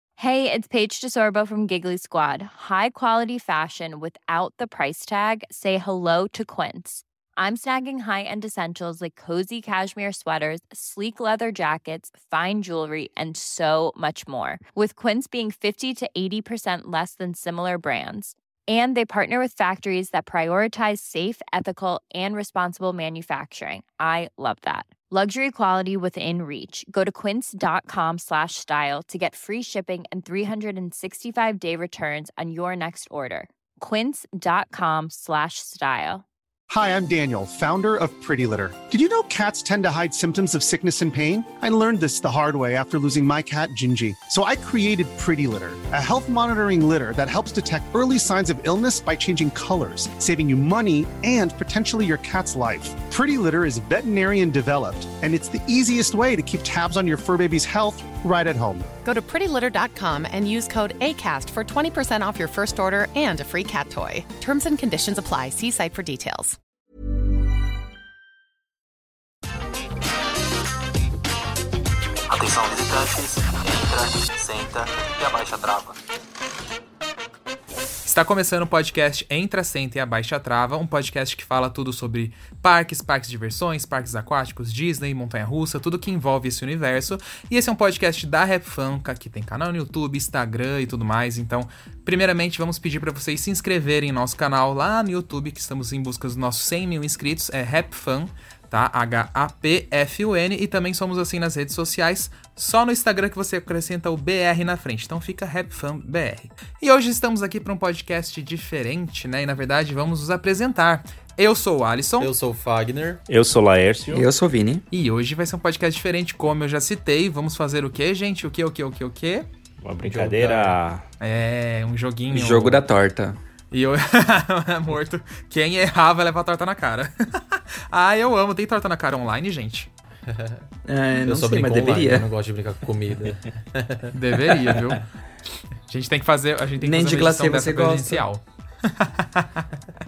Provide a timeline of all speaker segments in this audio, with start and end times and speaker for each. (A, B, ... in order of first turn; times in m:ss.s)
0:00.2-0:36.2 A
0:36.7-0:58.9 B
0:59.0-1:06.6 C
1:12.3-1:16.0 D
1:18.0-1:52.3 E
1:52.2-1:53.2 F
1:53.3-1:54.3 G
1:54.1-1:54.8 H
1:54.9-1:59.5 E
1:59.8-2:01.0 G
2:00.0-2:00.8 F
2:01.2-2:02.8 E
2:02.3-2:03.4 H
2:03.7-2:09.9 E
2:10.3-2:10.6 F
2:10.9-2:12.3 H
2:11.2-2:14.1 F
2:14.1-2:15.0 E
2:15.9-2:19.6 E
2:16.8-2:18.2 H